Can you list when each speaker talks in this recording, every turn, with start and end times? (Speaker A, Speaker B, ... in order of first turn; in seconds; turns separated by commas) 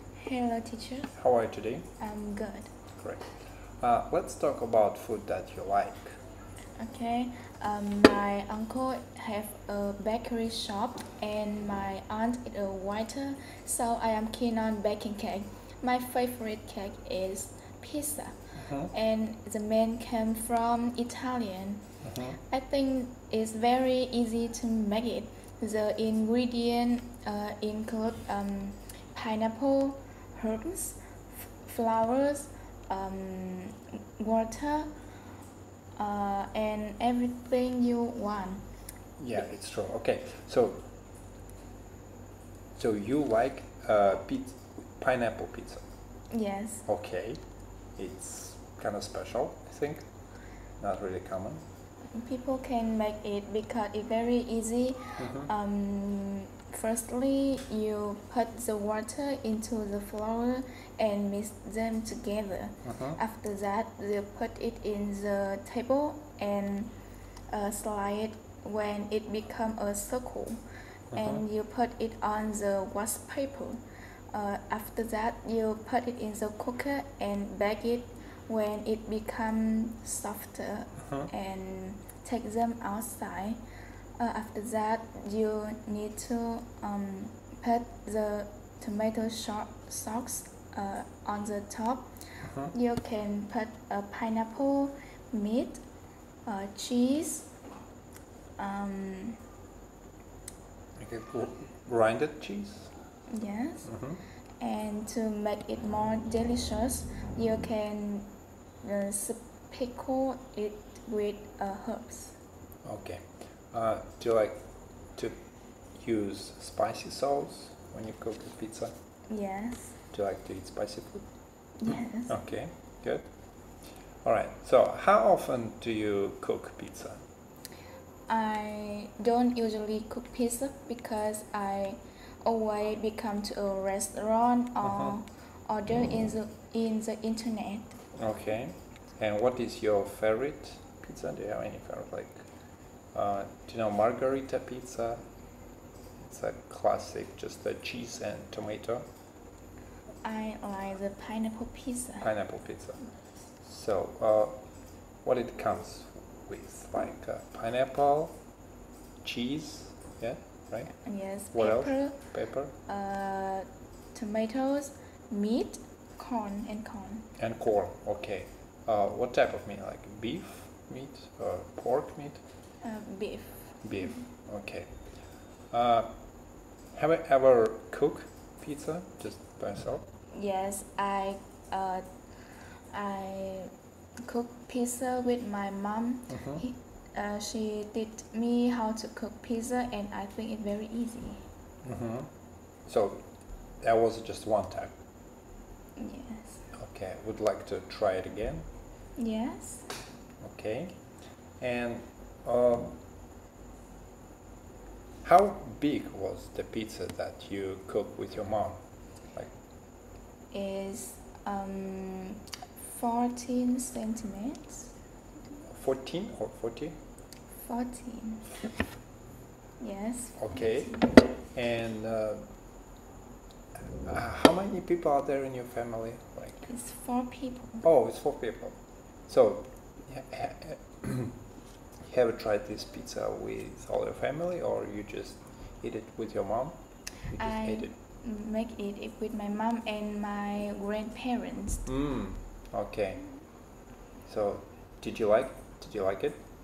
Speaker A: 0.1-1.1, Speaker B: 1.1-1.9, Speaker A: 2.0-2.7, Speaker B: 2.9-6.2, Speaker A: 6.8-35.0, Speaker B: 18.6-18.9, Speaker B: 22.0-22.4, Speaker A: 36.0-38.7, Speaker B: 39.2-40.9, Speaker B: 42.7-45.9, Speaker A: 46.3-46.9, Speaker B: 46.9-51.6, Speaker A: 52.1-66.9, Speaker B: 55.2-55.5, Speaker B: 62.8-63.2, Speaker A: 67.5-70.6, Speaker B: 71.1-71.4, Speaker A: 71.1-83.6, Speaker B: 81.0-81.3, Speaker A: 84.2-95.8, Speaker B: 92.4-92.7, Speaker A: 96.4-97.5, Speaker A: 98.6-99.4, Speaker B: 101.0-102.9, Speaker A: 103.3-103.9, Speaker B: 103.8-104.2, Speaker A: 104.6-112.4, Speaker B: 112.8-118.9, Speaker A: 119.3-120.0, Speaker B: 120.1-121.7, Speaker A: 121.8-122.4, Speaker B: 122.3-127.2, Speaker A: 128.3-138.0, Speaker B: 134.8-135.2, Speaker B: 138.1-145.2, Speaker B: 146.2-149.0, Speaker A: 150.2-152.3, Speaker B: 152.2-158.6, Speaker B: 159.2-162.7, Speaker A: 161.0-167.3, Speaker B: 167.4-172.4, Speaker A: 172.8-174.2, Speaker B: 173.8-180.0, Speaker A: 180.3-183.7, Speaker A: 184.2-191.5, Speaker B: 186.3-186.6, Speaker B: 191.8-195.0, Speaker A: 196.0-196.7, Speaker B: 196.7-198.7, Speaker A: 199.2-199.9, Speaker B: 200.4-203.0, Speaker B: 205.2-209.6, Speaker A: 210.5-214.9, Speaker B: 215.7-216.9, Speaker A: 217.6-218.7, Speaker A: 219.8-221.2, Speaker B: 220.4-222.5, Speaker B: 224.0-226.7, Speaker A: 226.6-227.8, Speaker B: 227.8-231.4, Speaker B: 232.0-237.9, Speaker A: 237.3-241.9, Speaker B: 241.8-243.3, Speaker B: 244.2-246.4